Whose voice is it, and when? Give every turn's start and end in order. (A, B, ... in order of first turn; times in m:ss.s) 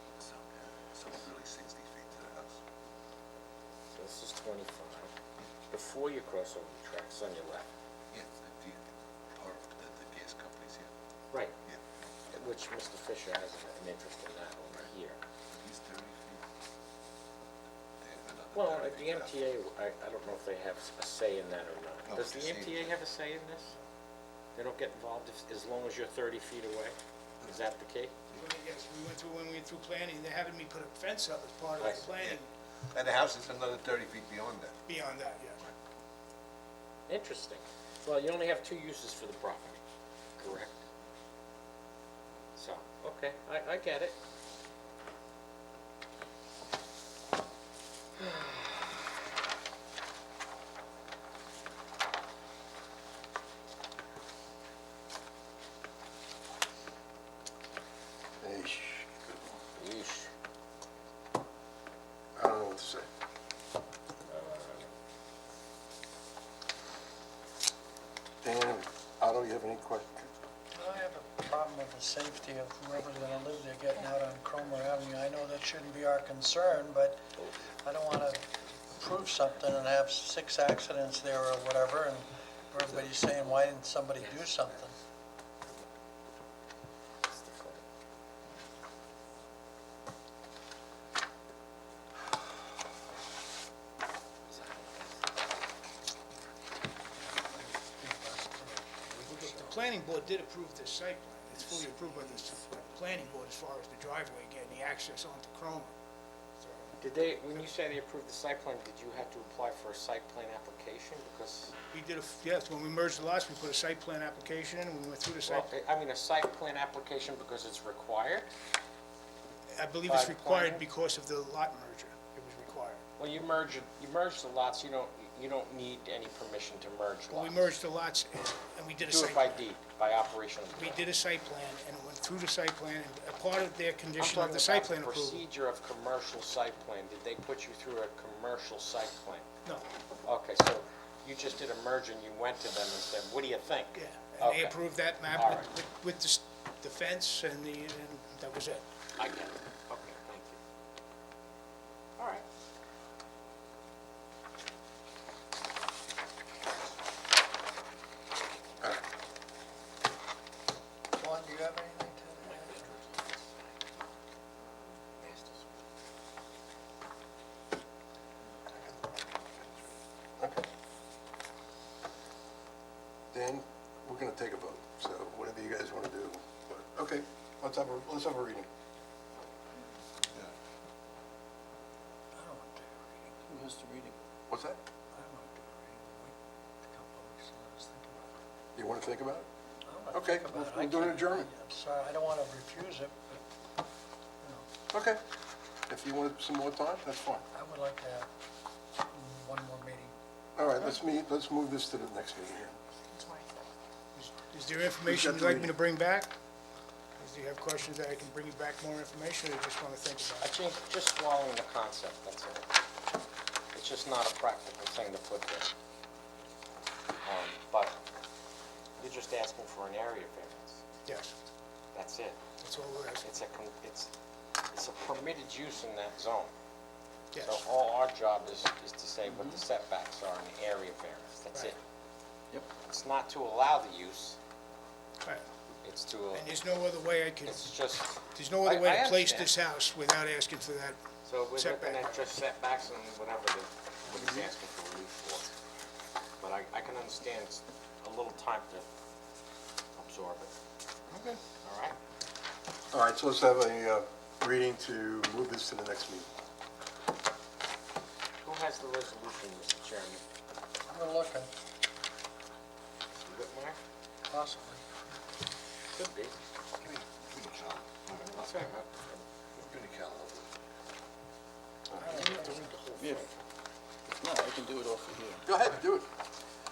0:00.2-0:02.6 A
0:03.9-0:05.1 B
0:05.7-0:07.7 B
0:08.1-0:10.9 A
0:12.3-0:15.2 B
0:15.5-0:16.4 A
0:18.0-0:19.4 A
0:18.5-0:23.7 B
0:22.0-0:23.0 A
0:24.6-0:28.1 B
0:28.4-0:32.5 C
0:31.8-0:32.0 B
0:32.0-0:32.4 A
0:32.9-0:34.8 A
0:34.9-0:35.7 C
0:37.1-0:39.8 B
0:40.4-0:40.8 B
0:42.6-0:44.2 B
0:48.2-0:48.6 B
0:58.4-0:59.5 D
0:59.8-1:00.3 B
1:02.4-1:03.1 D
1:04.3-1:04.9 B
1:08.4-1:10.3 D
1:10.7-1:24.9 E
1:22.9-1:23.7 B
1:24.2-1:24.5 B
1:27.3-1:27.8 B
1:34.5-1:35.1 B
1:37.2-1:39.8 E
1:39.4-1:45.9 C
1:41.5-1:42.4 B
1:46.6-1:46.9 C
1:47.0-1:51.8 B
1:51.9-1:55.6 C
1:55.4-1:58.5 B
1:59.8-2:03.0 C
2:00.1-2:00.9 B
2:03.2-2:07.7 B
2:07.3-2:09.5 C
2:09.0-2:11.0 B
2:10.8-2:15.4 C
2:14.2-2:19.5 B
2:20.2-2:24.8 B
2:23.9-2:28.8 C
2:25.3-2:25.7 B
2:29.2-2:30.6 B
2:32.2-2:32.4 B
2:41.1-2:42.9 E
2:42.4-2:43.5 B
2:45.2-2:45.6 B
2:50.4-2:50.6 D
2:53.3-2:58.7 D
3:02.3-3:03.4 E
3:03.5-3:04.2 F
3:04.5-3:04.8 D
3:05.1-3:08.4 E
3:08.7-3:09.5 D
3:09.8-3:13.4 E
3:10.1-3:11.5 D
3:14.4-3:14.7 E
3:14.9-3:15.2 D
3:15.9-3:17.4 D
3:17.5-3:18.3 E
3:19.1-3:20.2 E
3:20.6-3:22.8 D
3:23.2-3:23.4 B
3:24.2-3:26.3 C
3:25.0-3:25.7 D
3:27.2-3:30.4 C
3:30.4-3:32.7 B
3:33.7-3:35.7 B
3:37.2-3:38.0 B
3:39.0-3:40.8 B
3:41.1-3:41.3 C
3:41.9-3:42.4 B
3:42.6-3:43.2 C
3:43.2-3:44.1 B
3:44.7-3:46.5 B
3:47.3-3:47.6 C
3:47.4-3:51.8 B
3:49.3-3:49.6 F
3:52.8-3:54.4 B
3:55.8-3:56.5 B
3:56.3-3:57.6 C
3:57.4-3:59.5 B
3:58.3-4:01.0 C
4:01.2-4:05.5 B
4:01.6-4:02.2 C
4:06.4-4:08.9 B
4:10.0-4:10.5 B
4:11.1-4:11.4 D
4:11.6-4:12.0 B
4:12.9-4:16.3 D
4:18.4-4:20.2 B
4:20.9-4:21.5 E
4:23.1-4:23.8 B
4:24.3-4:24.8 E
4:25.9-4:26.4 B
4:26.9-4:28.6 A
4:28.1-4:29.2 B
4:29.6-4:30.4 A
4:31.9-4:32.2 D
4:32.0-4:32.7 E
4:32.0-4:33.3 B
4:33.0-4:33.3 F
4:34.1-4:35.5 F
4:35.4-4:36.1 D